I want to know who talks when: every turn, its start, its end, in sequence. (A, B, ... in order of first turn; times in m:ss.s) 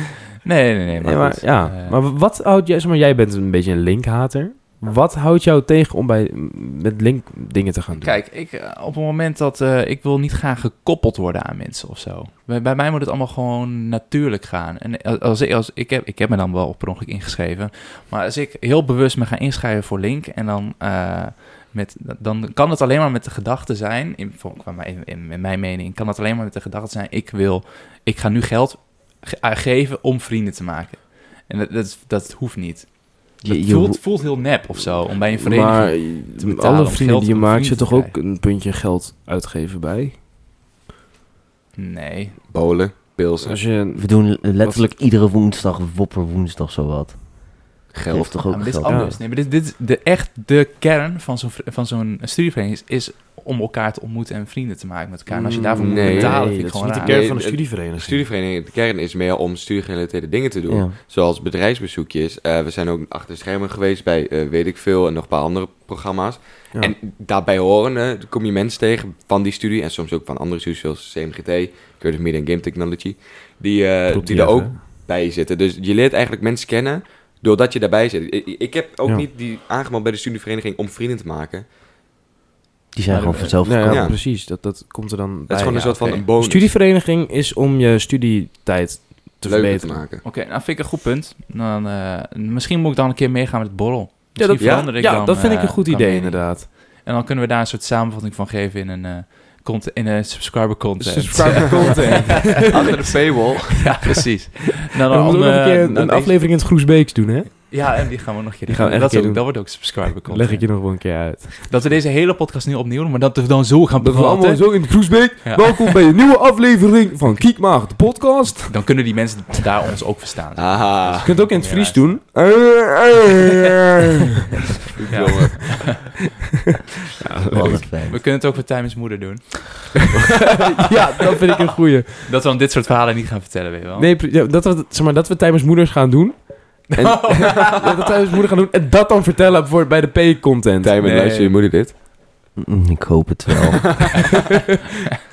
0:00.4-0:02.0 A
0:01.0-0:08.2 B
0:08.0-0:38.2 A
0:33.4-0:34.0 C
0:35.4-0:40.1 B
0:41.8-0:42.4 A
0:42.5-0:43.6 D
0:43.4-0:44.9 B
0:43.9-0:49.0 C
0:47.9-0:48.4 D
0:48.5-0:57.1 A
0:48.8-0:49.2 B
0:55.3-0:58.3 B
0:55.8-0:56.5 D
0:57.0-1:21.6 D
1:00.7-1:00.9 C
1:14.1-1:14.8 B
1:22.9-1:24.1 C
1:23.1-1:23.7 A
1:23.6-1:30.0 B
1:23.9-1:24.2 D
1:25.5-1:26.7 D
1:25.8-1:26.2 A
1:29.4-1:30.2 D
1:30.2-1:43.0 A
1:34.4-1:36.7 B
1:34.6-1:34.9 D
1:41.0-1:43.0 B
1:42.6-1:44.0 D
1:43.8-1:46.4 A
1:45.0-1:48.0 B
1:47.7-1:50.9 A
1:48.7-1:51.7 B
1:51.6-1:56.0 A
1:54.0-1:58.8 B
1:58.6-2:02.2 A
2:00.6-2:01.4 D
2:01.2-2:03.7 B
2:04.9-2:05.9 D
2:05.1-2:06.1 A
2:07.2-2:07.8 B
2:07.5-2:08.2 C
2:08.0-2:10.1 A
2:10.5-2:12.3 B
2:12.2-2:14.1 A
2:14.0-2:21.4 B
2:17.0-2:18.3 A
2:20.8-2:21.9 D
2:21.0-2:21.5 A
2:22.6-2:24.2 C